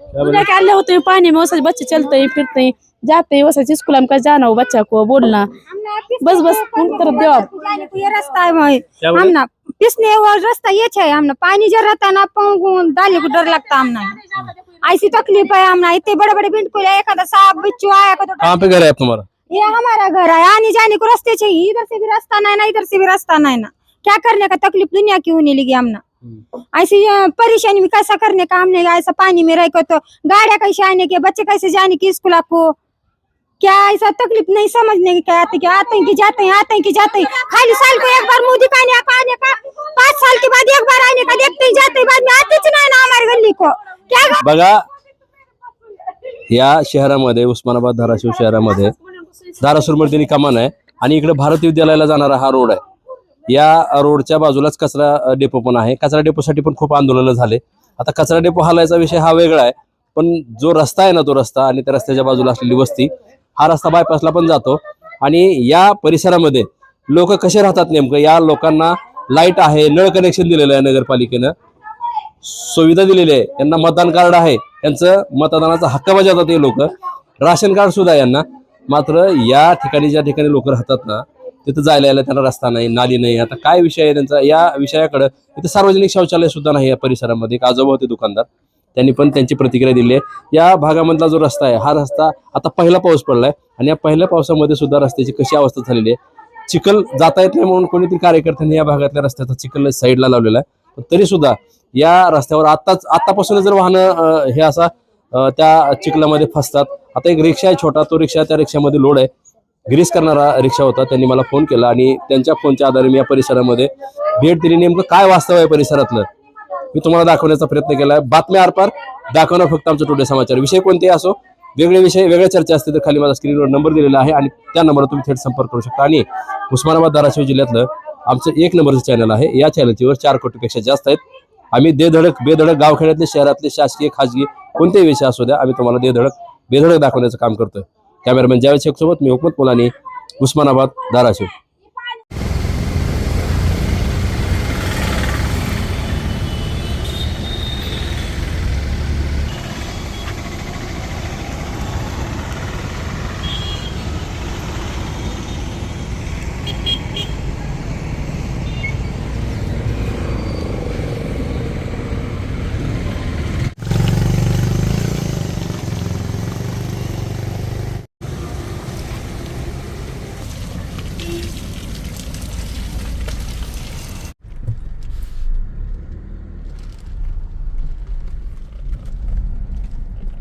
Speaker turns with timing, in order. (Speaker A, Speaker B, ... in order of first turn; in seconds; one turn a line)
Speaker A: 0.1-0.5
Speaker B: 0.2-5.5
Speaker C: 5.7-14.2
Speaker B: 6.2-7.5
Speaker A: 9.0-9.4
Speaker C: 14.8-18.7
Speaker A: 18.4-19.3
Speaker C: 19.5-26.0
Speaker C: 26.8-32.8
Speaker C: 33.6-44.4
Speaker A: 44.4-44.9
Speaker A: 46.5-48.9
Speaker A: 49.6-52.8
Speaker A: 53.5-71.5
Speaker A: 72.4-96.2
Speaker A: 96.7-109.3
Speaker A: 109.9-116.3
Speaker A: 116.9-131.2
Speaker A: 131.7-141.5